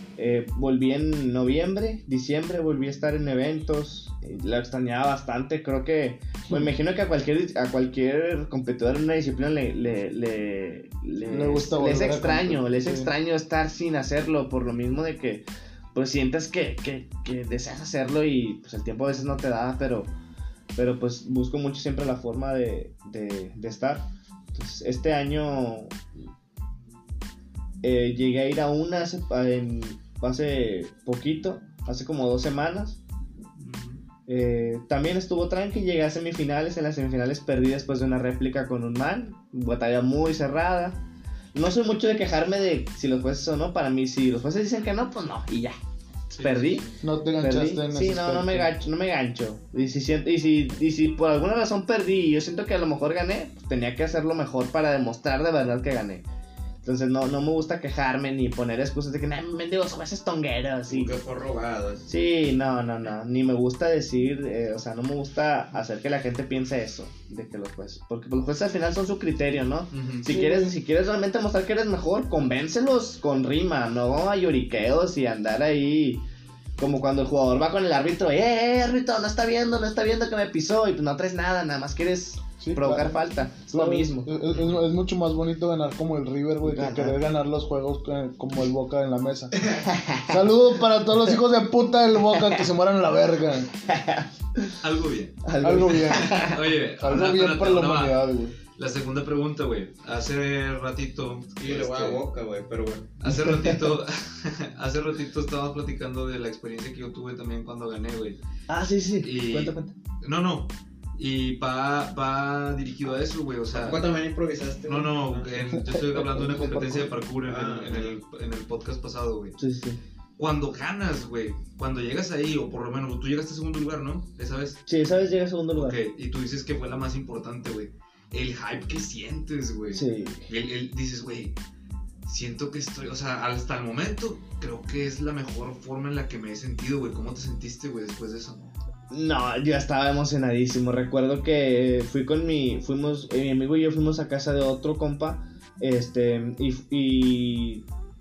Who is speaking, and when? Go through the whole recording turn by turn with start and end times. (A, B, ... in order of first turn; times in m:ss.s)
0:00.2-0:20.1 A
0:11.2-0:13.1 B
0:20.8-0:26.0 A
0:27.8-0:33.0 A
0:33.6-0:34.0 C
0:34.3-0:41.0 A
0:41.5-0:45.8 A
0:46.3-0:47.0 C
0:46.4-0:46.9 A
0:47.0-0:48.7 B
0:47.4-0:56.2 A
0:56.8-1:01.1 A
1:00.9-1:02.1 D
1:02.1-1:16.2 A
1:09.9-1:10.3 C
1:10.3-1:10.8 B
1:16.8-1:24.3 A
1:22.6-1:29.6 B
1:24.5-1:24.8 C
1:26.6-1:27.2 A
1:29.8-1:30.4 A
1:30.3-1:33.7 B
1:33.9-1:34.8 A
1:34.8-1:35.4 C
1:35.4-1:36.6 A
1:35.6-1:38.6 B
1:35.9-1:38.2 C
1:38.8-1:42.2 C
1:41.6-1:43.1 D
1:43.2-1:48.4 C
1:48.7-1:49.9 A
1:49.2-1:54.0 C
1:53.7-1:55.6 D
1:54.8-1:59.6 C
1:55.8-1:57.0 B
1:56.4-1:57.1 A
1:57.4-1:58.2 D
1:59.6-2:00.0 A
2:00.4-2:04.8 C
2:04.8-2:06.0 A
2:05.7-2:11.6 C
2:09.9-2:10.4 A
2:12.2-2:18.7 C
2:19.1-2:27.8 A